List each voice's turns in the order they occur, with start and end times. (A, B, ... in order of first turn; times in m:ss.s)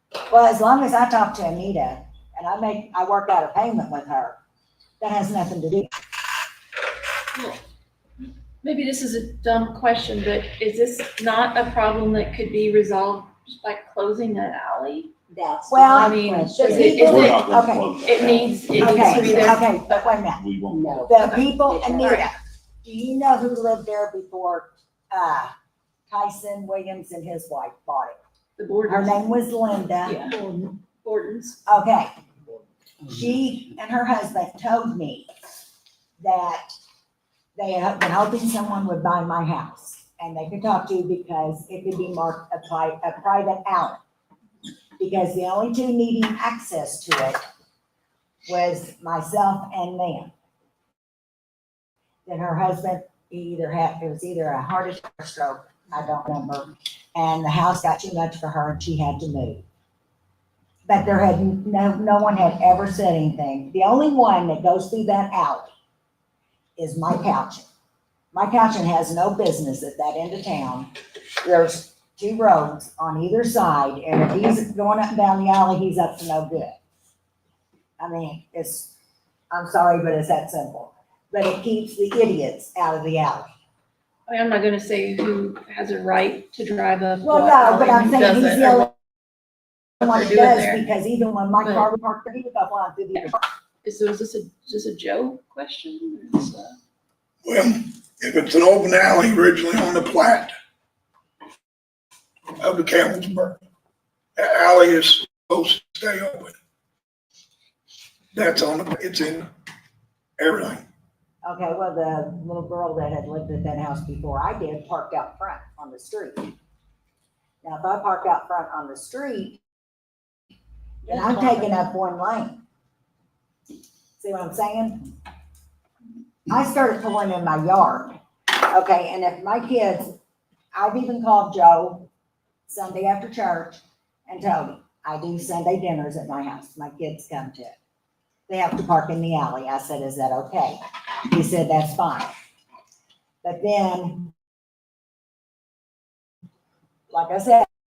0:00.3-0:04.4 A
0:05.0-0:05.9 A
0:07.3-0:07.6 B
0:08.6-0:15.1 B
0:15.3-0:17.0 C
0:15.7-0:18.0 A
0:15.8-0:20.0 B
0:16.8-0:19.7 D
0:18.8-0:20.4 A
0:20.4-0:21.0 D
0:20.7-0:22.2 C
0:21.1-0:22.3 B
0:21.1-0:25.5 A
0:26.1-0:28.2 A
0:28.6-0:29.4 B
0:28.8-0:30.2 A
0:30.0-0:31.6 B
0:31.7-0:32.1 A
0:33.0-0:35.3 A
0:36.2-0:36.7 A
0:37.6-0:44.0 A
0:45.0-0:47.4 A
0:48.5-0:50.3 A
0:52.2-0:59.6 A
1:00.9-1:05.7 A
1:06.8-1:07.6 A
1:08.3-1:10.9 A
1:11.4-1:16.8 A
1:18.0-1:18.9 A
1:19.5-1:23.5 A
1:24.3-1:28.9 B
1:27.2-1:28.9 A
1:30.0-1:30.8 B
1:30.0-1:33.4 A
1:31.6-1:31.9 B
1:33.8-1:36.7 B
1:37.4-1:40.5 E
1:42.6-1:43.6 E
1:44.4-1:46.5 E
1:48.3-1:49.5 E
1:50.4-1:50.8 E
1:51.4-1:56.5 A
1:57.6-1:59.6 A
2:01.0-2:01.7 C
2:01.1-2:02.6 A
2:04.2-2:05.0 A
2:06.5-2:10.2 A
2:10.7-2:12.1 A
2:12.7-2:17.7 A
2:18.5-2:22.3 A
2:23.4-2:24.3 A
2:27.1-2:27.7 A